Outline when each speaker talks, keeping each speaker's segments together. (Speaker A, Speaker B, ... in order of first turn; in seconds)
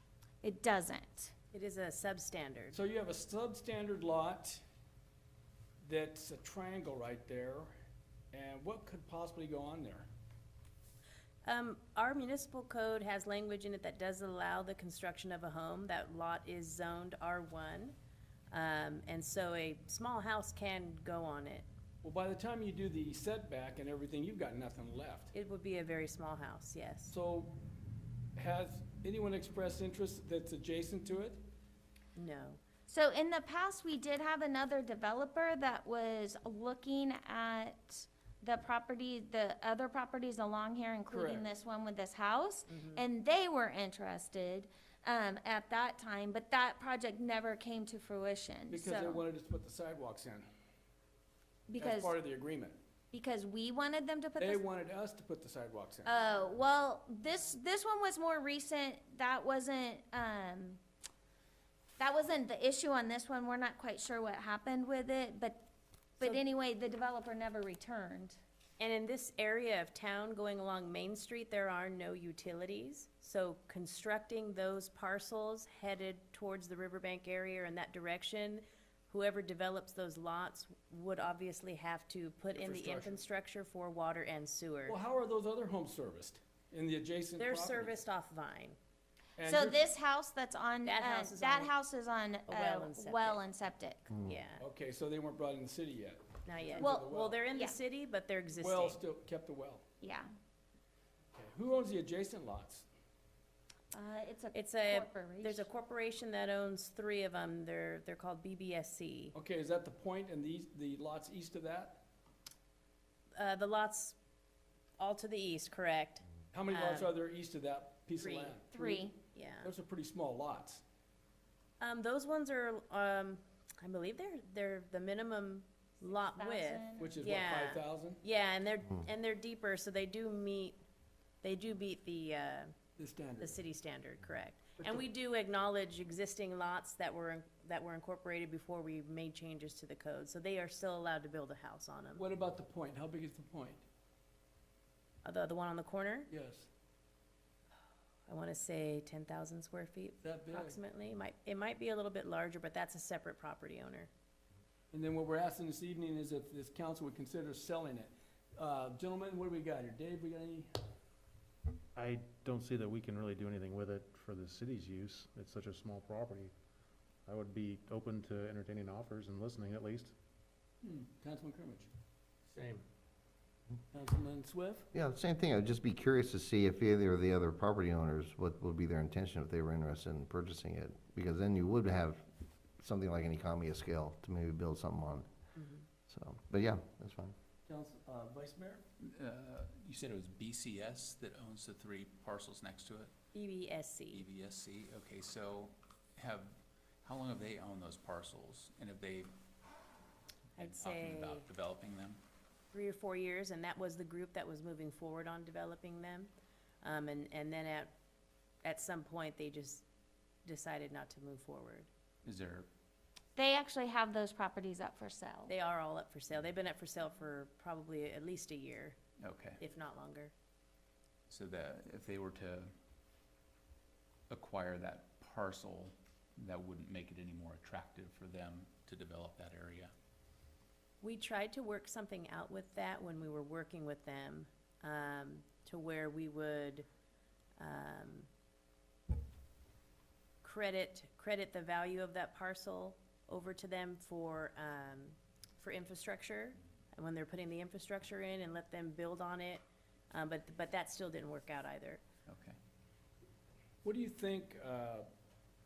Speaker A: 0.4-1.3, 32.9-49.2, 51.7-52.1, 53.1-54.6, 56.0-60.8, 62.0-65.7, 66.2-68.4, 89.4-94.1, 96.8-97.8, 100.0-100.3, 103.9-105.7, 118.7-119.1, 126.0-127.1, 213.3-215.5
Speaker B: 1.5-2.8, 11.4-17.9, 18.5-21.6, 25.3-27.1, 32.1-32.6, 42.7-43.0, 68.8-85.0, 87.4-88.8, 90.8-91.7, 92.5-93.4, 94.2-94.6, 96.5-99.0, 104.5-109.3, 113.3-114.2, 115.0-117.1, 118.2-119.7, 121.8-130.8, 131.4-132.8, 133.4-142.2, 145.2-146.3, 148.3-154.1, 185.5-185.8, 193.3-194.2, 200.6-201.5, 202.7-206.3, 206.8-207.9, 208.6-209.8, 210.4-211.9, 215.5-219.0, 219.6-220.3, 231.0-236.8, 237.6-238.3, 240.4-252.0
Speaker C: 2.7-4.6, 5.8-7.7, 8.3-10.1, 22.0-25.3, 27.1-27.6, 28.4-31.4, 41.1-41.5, 48.7-50.5, 51.8-52.8, 54.4-56.1, 82.5-83.2, 84.8-88.0, 89.4-89.8, 94.6-97.4, 98.6-99.8, 101.3-102.8, 109.3-112.0, 116.5-119.0, 119.6-120.8, 127.0-128.2, 133.0-133.6, 134.8-135.0, 142.2-143.8, 146.3-146.7, 150.2-150.8, 154.9-160.8, 170.8-171.9, 173.9-174.9, 187.7-188.8, 253.8-255.1
Speaker D: 161.9-166.5, 167.3-170.1
Speaker E: 174.9-182.3, 182.8-185.3, 186.1-187.3
Speaker F: 189.0-193.1, 194.1-199.3, 200.6-202.2, 212.2-212.7, 219.2-219.6, 221.3-222.7, 224.3-229.9, 252.3-252.6